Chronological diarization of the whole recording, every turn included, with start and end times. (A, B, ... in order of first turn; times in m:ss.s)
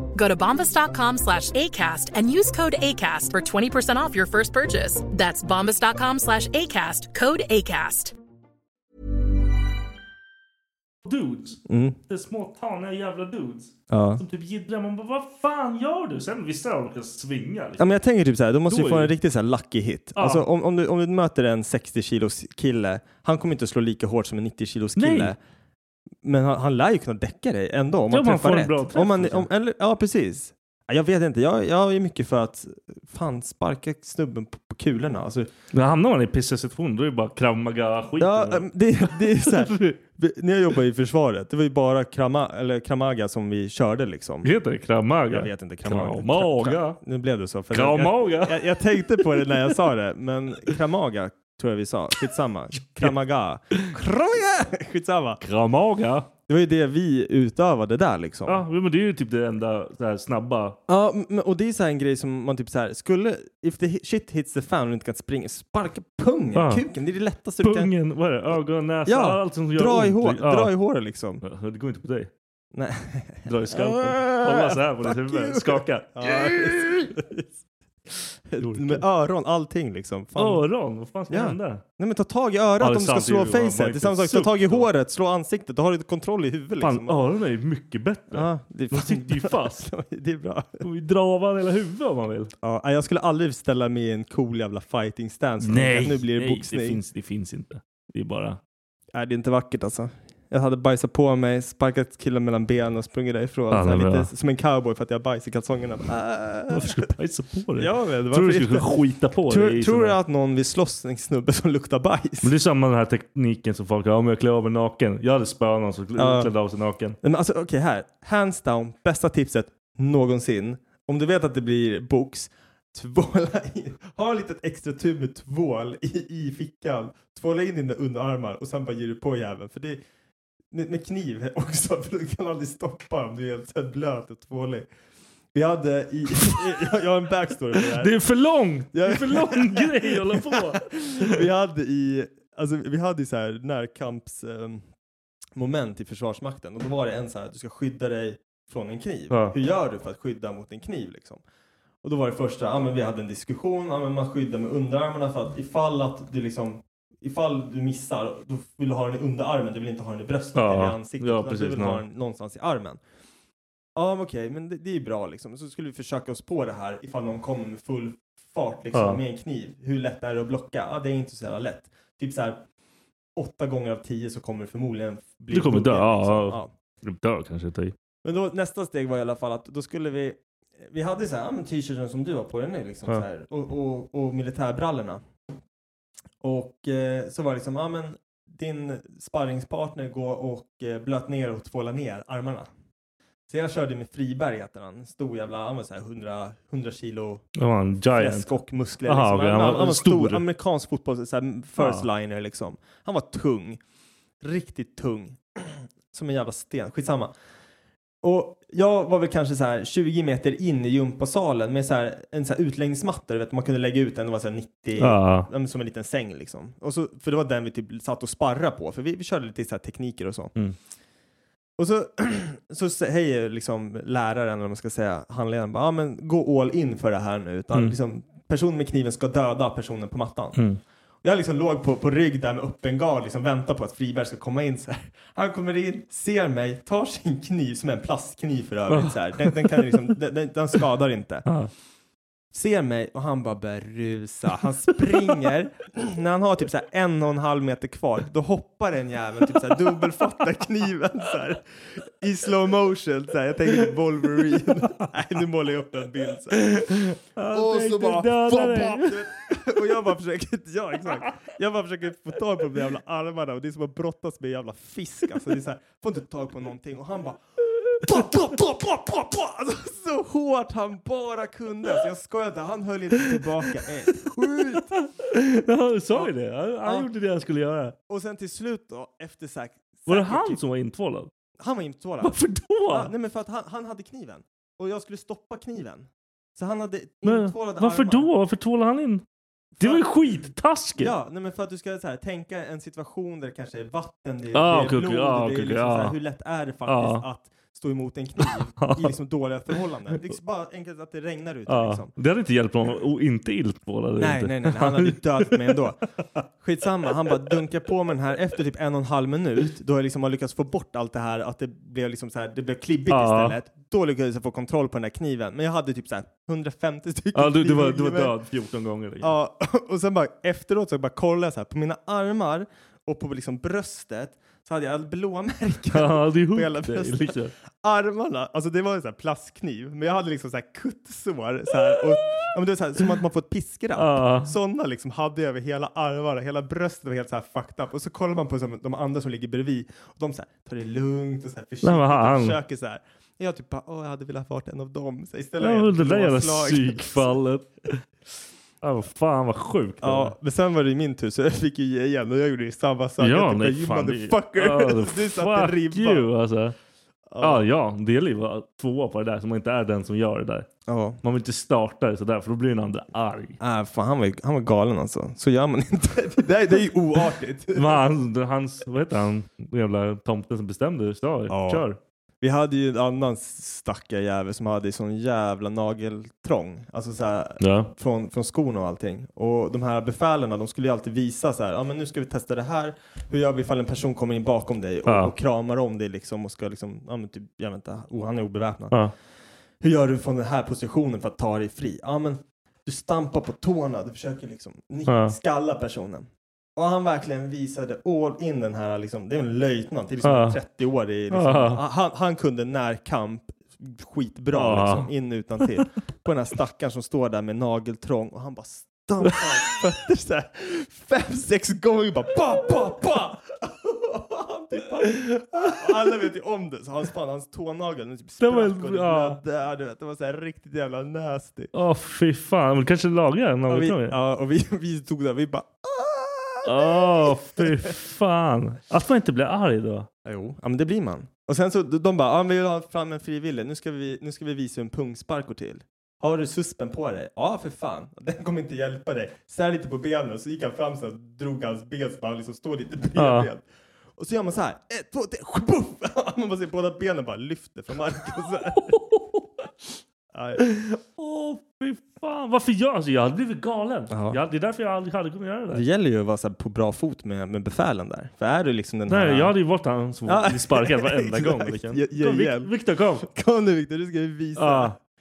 0:00.2-0:08.1 A
0:11.0-0:17.9 B
0:11.7-0:12.0 C
0:13.9-0:14.2 C
0:17.8-0:25.4 C
0:18.7-0:19.1 B
0:20.2-0:20.4 B
0:25.0-0:25.3 B
0:26.2-0:35.5 C
0:28.1-0:29.5 B
0:35.7-0:40.0 B
0:38.2-0:44.5 C
0:44.4-0:47.0 B
0:45.3-0:55.4 C
0:47.7-0:49.5 B
0:55.4-0:56.3 B
0:56.5-0:58.6 C
0:58.5-1:00.8 B
1:00.9-1:07.9 C
1:06.6-1:06.8 B
1:07.6-1:10.7 B
1:09.1-1:11.4 C
1:11.4-1:12.3 B
1:12.7-1:17.5 C
1:13.4-1:16.9 B
1:18.1-1:20.7 C
1:18.6-1:19.0 B
1:20.4-1:21.8 B
1:21.3-1:27.2 C
1:22.8-1:24.9 B
1:26.8-1:29.9 B
1:28.3-1:30.8 C
1:30.8-1:32.5 B
1:32.6-1:37.0 C
1:35.6-1:38.6 B
1:39.1-1:47.1 C
1:43.7-1:44.3 B
1:46.7-1:50.2 B
1:47.8-1:52.5 C
1:52.4-1:57.2 B
1:56.2-1:56.5 C
1:57.2-2:10.0 C
2:10.7-2:14.9 C
2:15.5-2:18.1 C
2:16.4-2:16.8 B
2:17.8-2:21.4 B
2:18.9-2:24.9 C
2:25.6-2:31.4 C
2:29.3-2:29.6 B
2:32.0-2:43.0 C
2:40.6-2:42.0 B
2:44.0-2:52.6 C
2:48.9-2:49.2 B
2:53.4-2:56.7 C
2:55.5-2:58.0 B
2:58.2-3:05.2 C
3:06.4-3:12.7 C
3:13.5-3:17.5 C
3:17.6-3:18.5 B
3:18.2-3:23.8 C
3:19.0-3:20.4 B
3:21.8-3:22.1 B
3:24.4-3:27.3 C
3:28.2-3:40.5 C
3:35.0-3:35.5 B
3:41.8-3:50.6 C
3:50.6-3:50.8 B
3:51.2-4:01.5 C
3:58.9-4:00.0 B
4:01.5-4:01.7 B
4:02.5-4:27.4 C
4:16.6-4:19.2 B
4:28.0-4:28.3 B
4:28.0-4:34.9 C
4:34.6-4:38.0 B
4:38.1-4:40.6 C
4:40.1-4:41.3 B
4:41.6-4:42.4 C
4:42.2-4:43.1 B
4:42.9-4:48.3 C
4:47.2-4:49.2 B
4:49.8-4:50.1 C
4:49.8-4:51.1 B
4:51.0-5:02.1 C
4:54.5-4:56.2 B
4:56.9-4:57.2 B
4:58.4-4:59.1 B
5:01.7-5:05.8 B
5:04.2-5:06.0 C
5:06.6-5:18.4 C
5:13.1-5:13.6 B
5:17.4-5:19.4 B
5:19.2-5:47.3 C
5:25.9-5:27.5 B
5:34.0-5:34.5 B
5:41.8-5:42.6 B
5:45.6-5:48.0 B
5:48.8-5:50.4 B
5:50.0-5:56.3 C
5:53.2-5:56.8 B
5:57.3-5:57.7 C
5:57.4-6:00.7 B
6:00.9-6:01.2 C
6:01.2-6:03.6 B
6:03.6-6:08.0 C
6:07.7-6:12.0 B
6:11.5-6:11.8 C
6:12.4-6:29.0 C
6:17.6-6:17.9 B
6:25.1-6:25.3 B
6:29.8-7:01.7 C
6:35.1-6:35.4 B
6:40.2-6:40.6 B
6:41.3-6:41.8 B
6:44.5-6:45.1 B
6:58.4-6:59.4 B
7:01.7-7:04.2 B
7:03.7-7:07.9 C
7:06.6-7:10.1 B
7:10.2-7:23.6 C
7:23.2-7:23.5 B
7:24.2-7:29.0 C
7:28.8-7:29.4 B
7:30.3-7:30.6 C
7:30.6-7:35.8 B
7:34.1-7:34.4 C
7:35.7-7:39.5 C
7:39.1-7:43.3 B
7:40.3-7:45.0 C
7:44.6-7:45.0 B